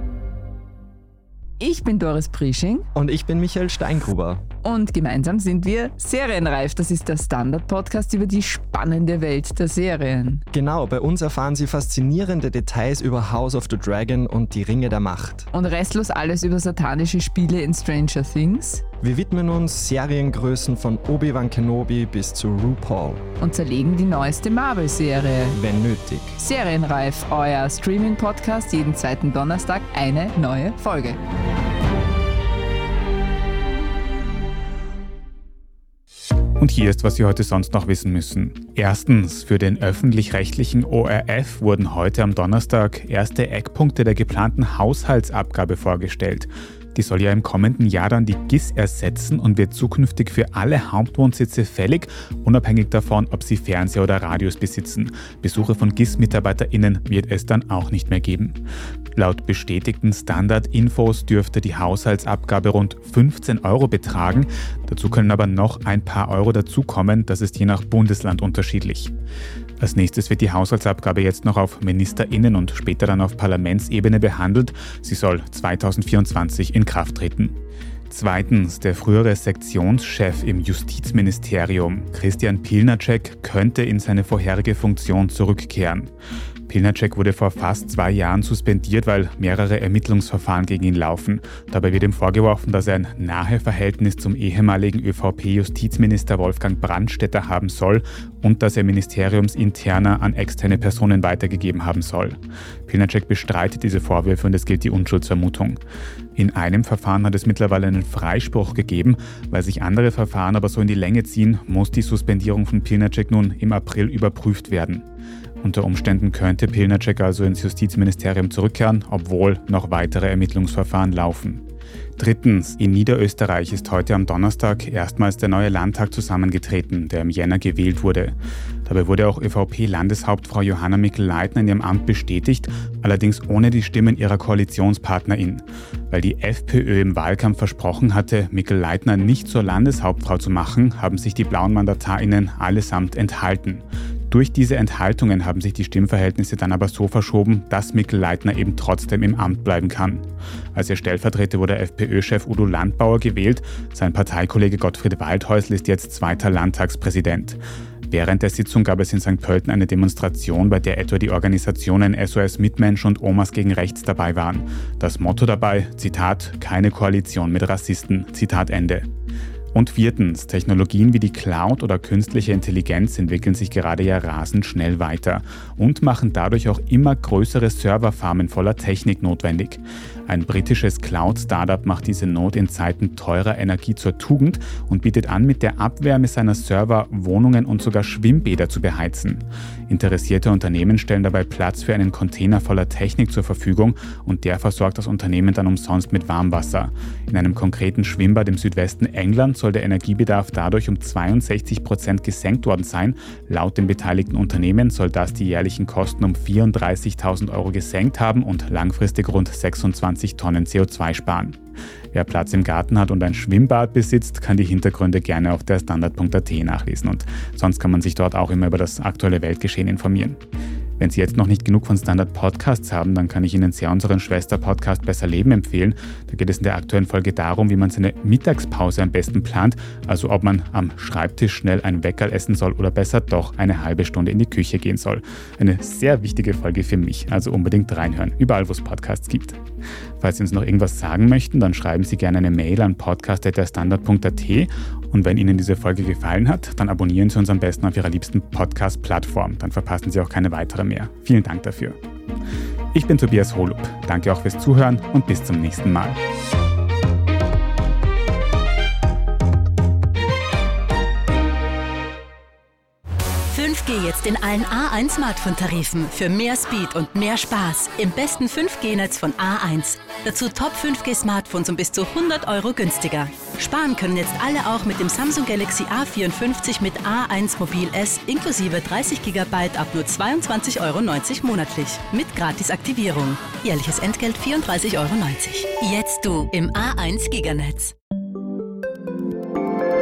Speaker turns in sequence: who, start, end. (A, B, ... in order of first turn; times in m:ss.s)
0:01.6-0:02.9 A
0:02.9-0:04.5 B
0:04.6-0:10.4 A
0:10.5-0:15.5 B
0:15.5-0:18.8 A
0:19.0-0:23.2 B
0:23.4-0:25.6 A
0:25.5-0:26.4 B
0:26.4-0:31.2 A
0:36.6-0:58.6 C
0:59.1-1:09.1 C
1:09.8-1:17.6 C
1:18.1-1:26.1 C
1:26.7-1:45.8 C
1:46.4-1:55.0 C
1:55.6-2:01.6 C
2:02.2-2:49.1 C
2:49.7-3:31.6 C
3:32.1-3:40.4 C
3:41.0-3:59.6 C
4:00.2-4:12.0 C
4:12.9-4:16.2 C
4:23.5-4:47.9 D